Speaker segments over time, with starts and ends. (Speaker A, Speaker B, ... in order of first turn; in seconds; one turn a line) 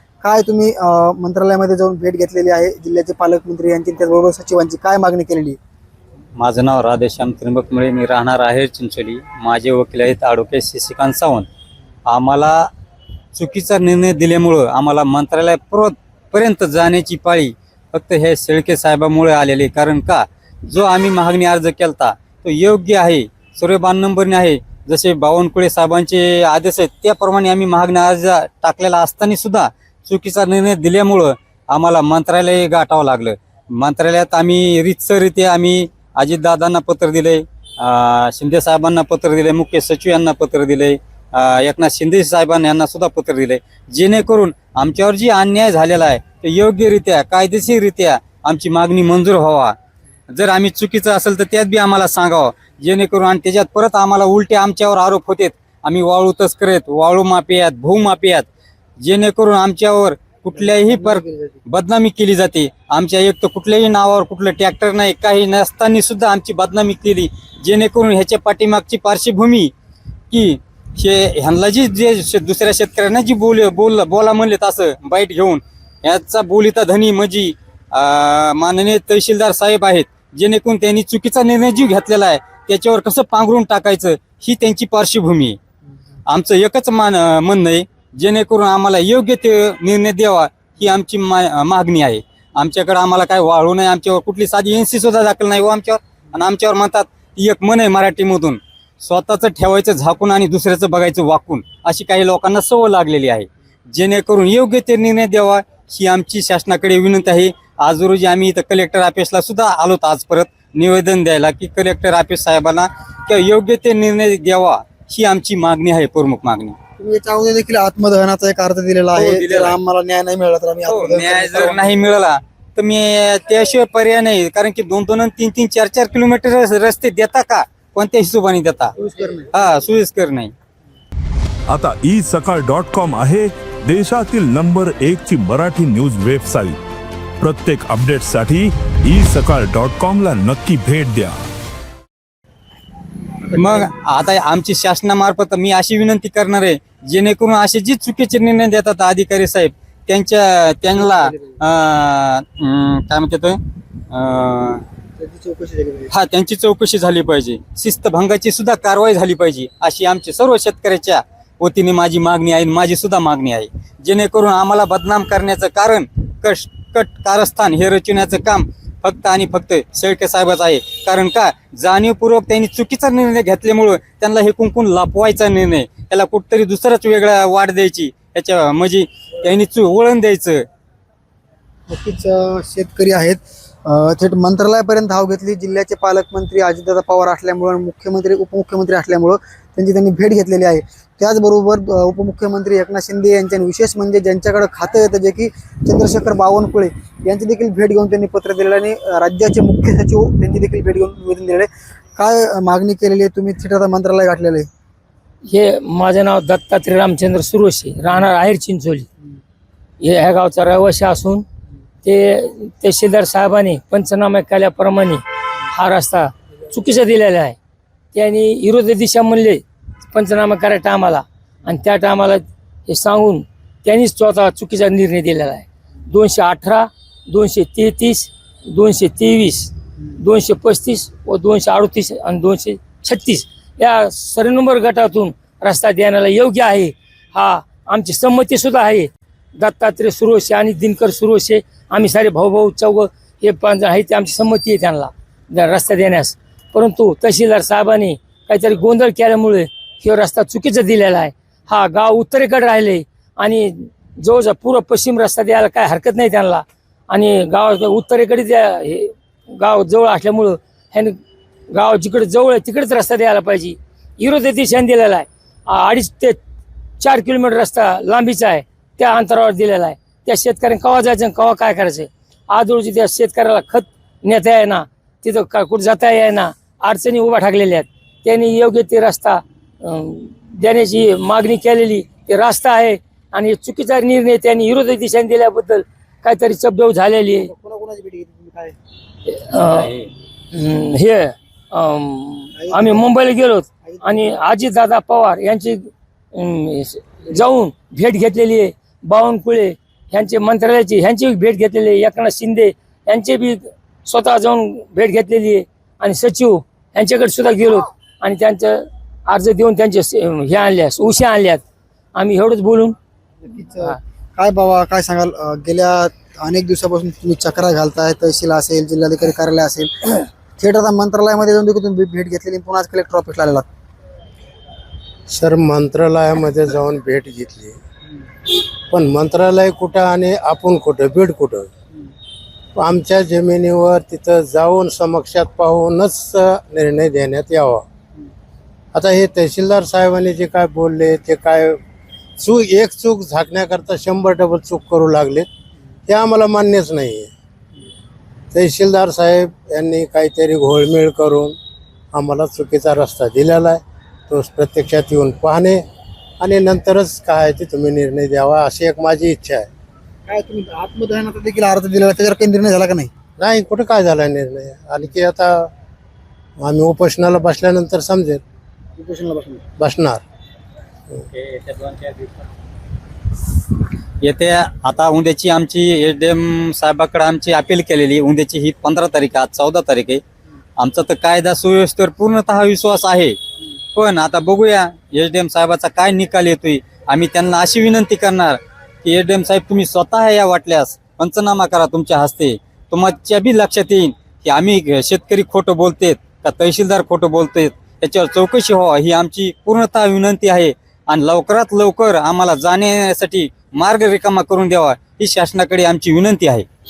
Speaker A: 0.2-5.6
Speaker B: 6.4-11.5
Speaker B: 12.1-12.7
Speaker B: 13.3-49.7
Speaker B: 50.3-58.5
Speaker B: 59.0-69.7
Speaker A: 60.5-61.6
Speaker B: 70.3-85.6
Speaker B: 86.3-116.8
Speaker A: 117.0-122.0
Speaker B: 119.2-119.8
Speaker B: 120.8-128.9
Speaker A: 129.0-129.5
Speaker B: 129.5-130.5
Speaker C: 131.7-136.8
Speaker C: 137.4-141.4
Speaker B: 143.5-154.8
Speaker A: 151.0-151.6
Speaker A: 155.2-156.1
Speaker B: 156.1-180.6
Speaker A: 181.9-204.7
Speaker D: 205.5-209.1
Speaker D: 210.0-211.4
Speaker D: 212.0-217.6
Speaker D: 218.1-261.2
Speaker D: 261.7-266.4
Speaker D: 267.0-287.5
Speaker A: 287.4-288.8
Speaker D: 289.3-289.9
Speaker B: 289.7-290.1
Speaker D: 290.5-311.6
Speaker A: 292.6-293.1
Speaker A: 293.9-294.2
Speaker D: 312.1-312.9
Speaker A: 313.4-323.6
Speaker E: 325.3-327.8
Speaker E: 328.9-331.7
Speaker E: 332.8-337.8
Speaker E: 338.9-341.8
Speaker E: 342.4-345.5
Speaker E: 346.1-347.3
Speaker E: 348.5-351.6
Speaker E: 352.1-355.8
Speaker E: 356.4-359.7
Speaker A: 360.3-363.1
Speaker E: 363.4-365.7
Speaker E: 366.6-368.4
Speaker A: 369.0-369.6
Speaker E: 369.8-370.2
Speaker B: 371.3-372.4
Speaker B: 374.2-380.2
Speaker B: 380.8-383.4
Speaker B: 383.9-406.6